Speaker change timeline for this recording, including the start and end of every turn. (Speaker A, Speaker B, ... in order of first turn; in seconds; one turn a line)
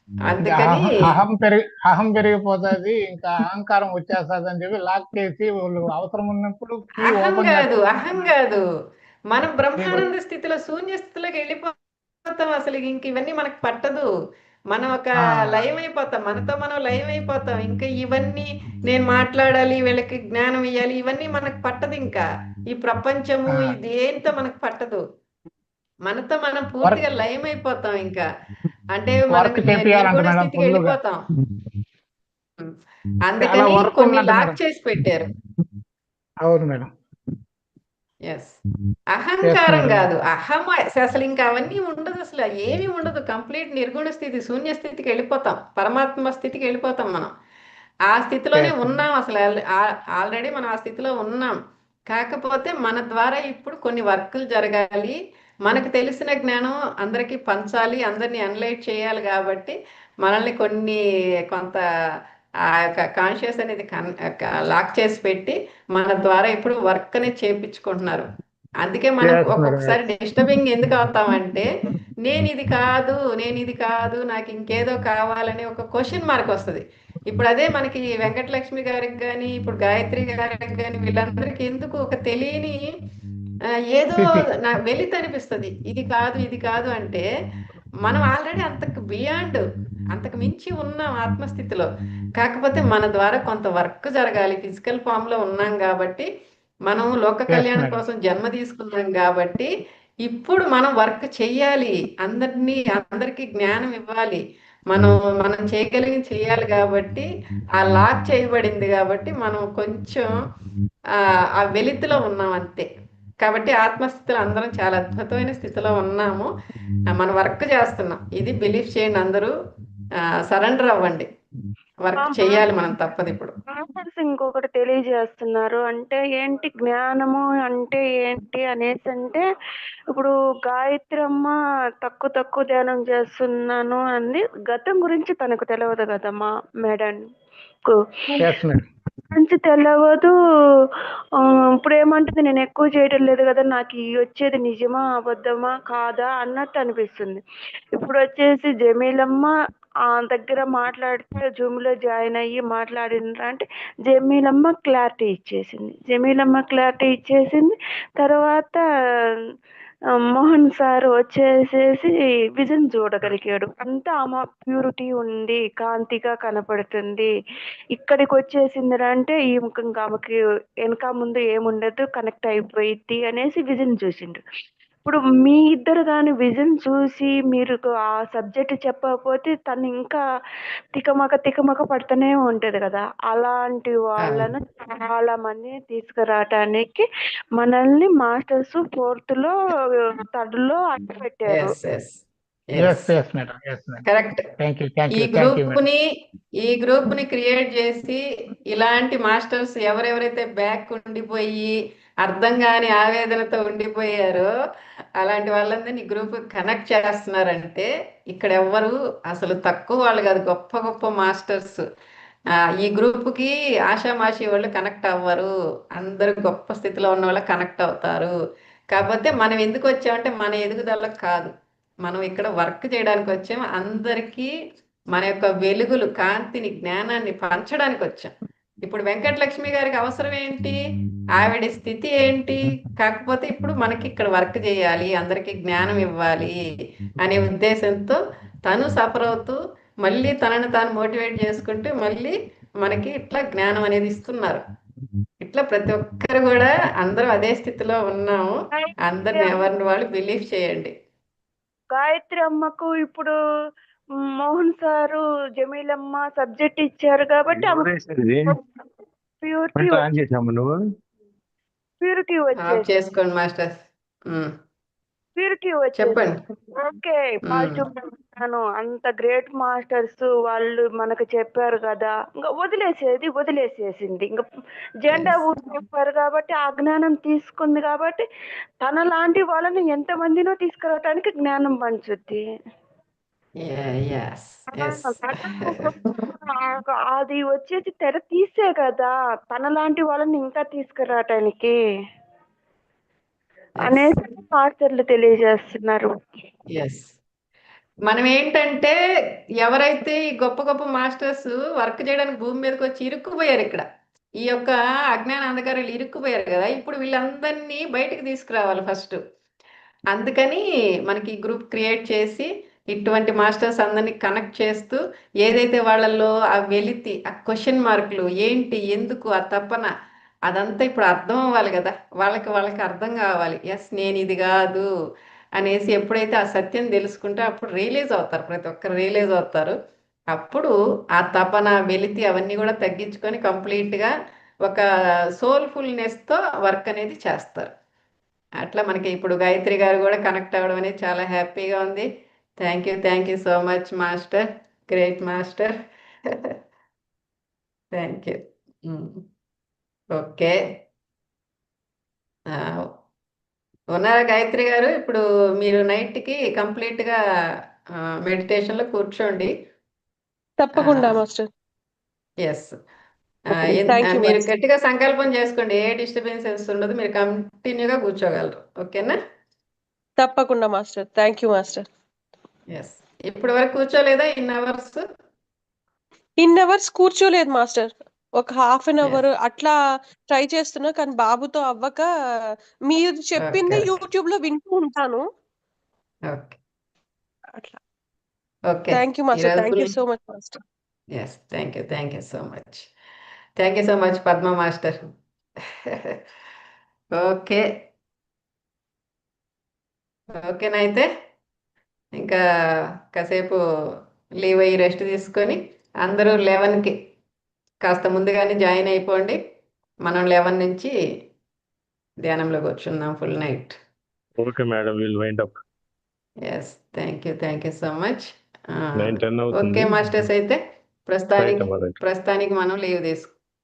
Speaker A: 0.2-1.0
Speaker B: 0.4-7.8
Speaker A: 7.0-8.6
Speaker A: 9.3-11.7
Speaker B: 9.8-10.1
Speaker A: 12.3-14.1
Speaker A: 14.7-25.0
Speaker B: 15.3-15.7
Speaker B: 23.5-23.8
Speaker A: 26.1-28.3
Speaker A: 28.9-31.2
Speaker B: 29.3-31.0
Speaker A: 32.6-35.3
Speaker B: 33.4-34.6
Speaker B: 36.5-36.9
Speaker A: 38.3-38.5
Speaker A: 39.1-47.3
Speaker B: 39.4-40.1
Speaker A: 48.1-51.6
Speaker B: 48.5-49.0
Speaker A: 52.1-61.0
Speaker A: 61.5-61.8
Speaker A: 62.7-68.3
Speaker A: 68.8-71.7
Speaker B: 69.2-70.0
Speaker A: 72.2-82.9
Speaker A: 83.9-87.3
Speaker B: 84.2-84.5
Speaker A: 88.0-96.3
Speaker A: 96.9-99.7
Speaker B: 97.5-98.0
Speaker A: 100.2-110.3
Speaker A: 111.5-112.9
Speaker A: 113.4-116.5
Speaker A: 117.1-119.5
Speaker A: 120.2-121.3
Speaker A: 122.0-123.5
Speaker C: 122.2-122.7
Speaker C: 123.8-129.4
Speaker C: 130.1-137.2
Speaker C: 137.9-138.5
Speaker B: 138.4-138.9
Speaker C: 139.3-140.3
Speaker C: 141.4-147.4
Speaker C: 148.0-149.5
Speaker C: 150.1-158.8
Speaker C: 160.3-167.3
Speaker C: 167.9-174.4
Speaker C: 175.1-180.2
Speaker C: 181.0-191.7
Speaker A: 191.5-193.1
Speaker B: 192.8-194.0
Speaker A: 194.1-194.4
Speaker B: 194.6-195.8
Speaker A: 195.1-196.0
Speaker A: 196.6-204.5
Speaker A: 205.2-211.8
Speaker A: 212.8-218.3
Speaker A: 218.9-221.5
Speaker A: 222.0-224.5
Speaker A: 225.1-230.8
Speaker A: 231.3-236.6
Speaker A: 237.2-244.6
Speaker A: 245.4-250.9
Speaker C: 248.9-249.7
Speaker C: 251.9-253.3
Speaker C: 254.4-257.9
Speaker D: 257.5-258.6
Speaker C: 259.4-260.0
Speaker D: 259.8-260.8
Speaker C: 262.0-262.9
Speaker A: 262.6-264.5
Speaker C: 265.4-274.4
Speaker A: 266.0-266.4
Speaker A: 267.5-267.8
Speaker C: 275.0-278.2
Speaker A: 275.1-275.4
Speaker C: 278.8-282.4
Speaker A: 283.6-285.9
Speaker C: 284.8-291.8
Speaker C: 293.8-296.1
Speaker A: 293.8-294.1
Speaker A: 296.7-297.1
Speaker A: 298.1-299.0
Speaker A: 299.6-303.9
Speaker A: 304.4-309.2
Speaker A: 310.1-319.9
Speaker A: 320.5-324.9
Speaker A: 325.6-329.8
Speaker A: 330.3-334.1
Speaker A: 335.4-337.7
Speaker A: 338.6-342.1
Speaker A: 342.6-346.5
Speaker A: 347.9-349.2
Speaker A: 350.2-350.6
Speaker A: 352.5-352.9
Speaker A: 353.9-357.2
Speaker A: 358.2-359.5
Speaker E: 360.6-361.5
Speaker A: 360.8-361.1
Speaker A: 362.4-362.8
Speaker A: 363.5-369.1
Speaker E: 363.5-364.4
Speaker E: 370.2-371.9
Speaker A: 372.7-375.1
Speaker E: 376.4-379.8
Speaker E: 380.3-385.2
Speaker A: 383.4-384.0
Speaker A: 386.3-386.6
Speaker A: 388.7-389.9
Speaker E: 388.9-390.6
Speaker A: 391.1-392.9
Speaker A: 393.6-395.1
Speaker A: 395.9-396.2
Speaker A: 397.2-397.7
Speaker A: 400.3-401.1
Speaker A: 403.1-403.6
Speaker A: 404.4-407.0
Speaker A: 407.9-409.4
Speaker A: 410.1-410.9
Speaker A: 412.2-413.8
Speaker D: 414.4-415.6
Speaker A: 416.5-423.3
Speaker D: 418.9-419.9
Speaker D: 421.4-422.0